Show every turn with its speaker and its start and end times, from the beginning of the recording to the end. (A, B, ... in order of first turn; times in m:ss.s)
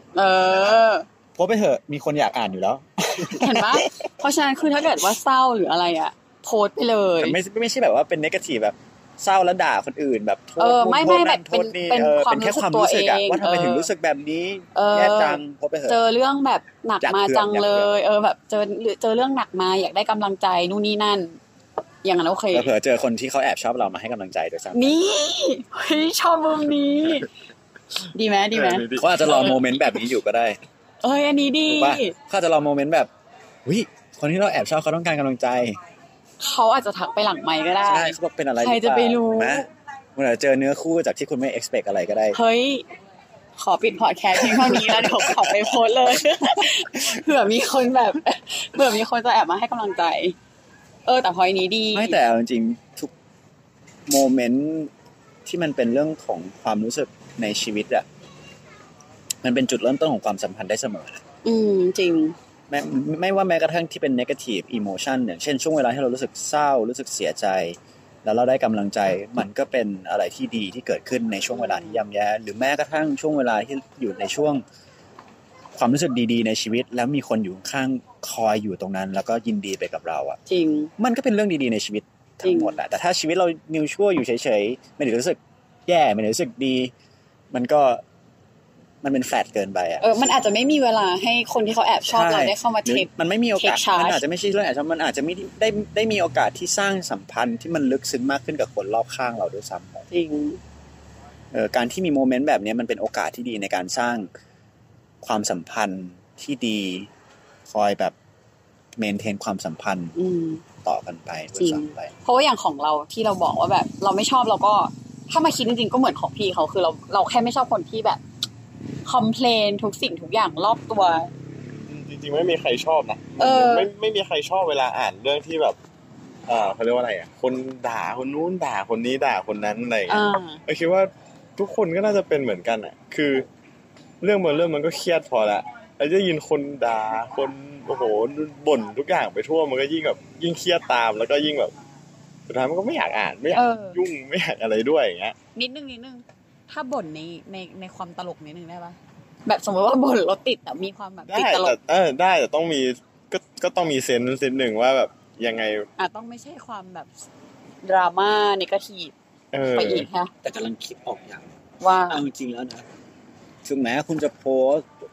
0:00.1-0:01.1 A
0:00.5-0:00.8 B
0:01.4-0:04.1 B
0:03.4-0:07.4 A
0:07.2-0:16.0 B
0:10.6-0:13.9 A
0:14.7-0:21.4 A
0:17.0-0:17.9 B
0:22.0-0:22.7 A
0:22.5-0:24.9 B
0:24.7-0:27.3 A
0:28.0-0:29.6 A
0:28.5-0:29.2 C
0:28.9-0:30.6 B
0:31.0-0:32.1 A
0:31.7-0:33.1 B
0:33.6-0:35.8 B
0:36.4-0:39.7 A
0:37.8-0:42.4 B
0:42.3-0:42.9 A
0:43.6-0:50.4 A
0:44.3-0:45.8 B
0:46.6-0:47.0 B
0:51.1-0:52.2 A
0:51.9-0:53.1 B
0:54.1-0:54.9 B
0:55.4-0:58.0 B
0:59.4-1:01.2 B
1:01.4-1:02.4 A
1:02.7-1:14.6 B
1:11.5-1:12.0 A
1:15.7-1:20.4 B
1:20.5-1:20.9 A
1:21.0-1:26.9 B
1:22.4-1:22.8 A
1:27.5-1:28.0 B
1:29.0-1:30.3 B
1:30.0-1:34.2 A
1:32.0-1:40.1 B
1:40.1-1:40.6 A
1:41.5-1:44.3 B
1:45.2-1:47.1 B
1:47.7-1:48.1 B
1:49.0-1:50.1 B
1:50.2-1:50.6 A
1:50.8-1:52.1 B
1:51.6-1:58.2 A
1:59.0-2:01.3 A
2:01.9-2:05.8 C
2:03.4-2:03.9 A
2:06.4-2:13.4 C
2:10.1-2:10.6 A
2:14.2-2:21.7 C
2:22.5-2:25.4 C
2:23.5-2:24.0 A
2:25.6-2:31.8 A
2:31.3-2:35.9 C
2:36.0-2:37.2 A
2:37.8-2:39.1 A
2:39.5-2:40.1 C
2:39.7-2:40.3 A
2:40.4-2:41.6 B
2:41.8-2:42.2 A
2:42.1-2:42.8 B
2:43.6-2:44.9 B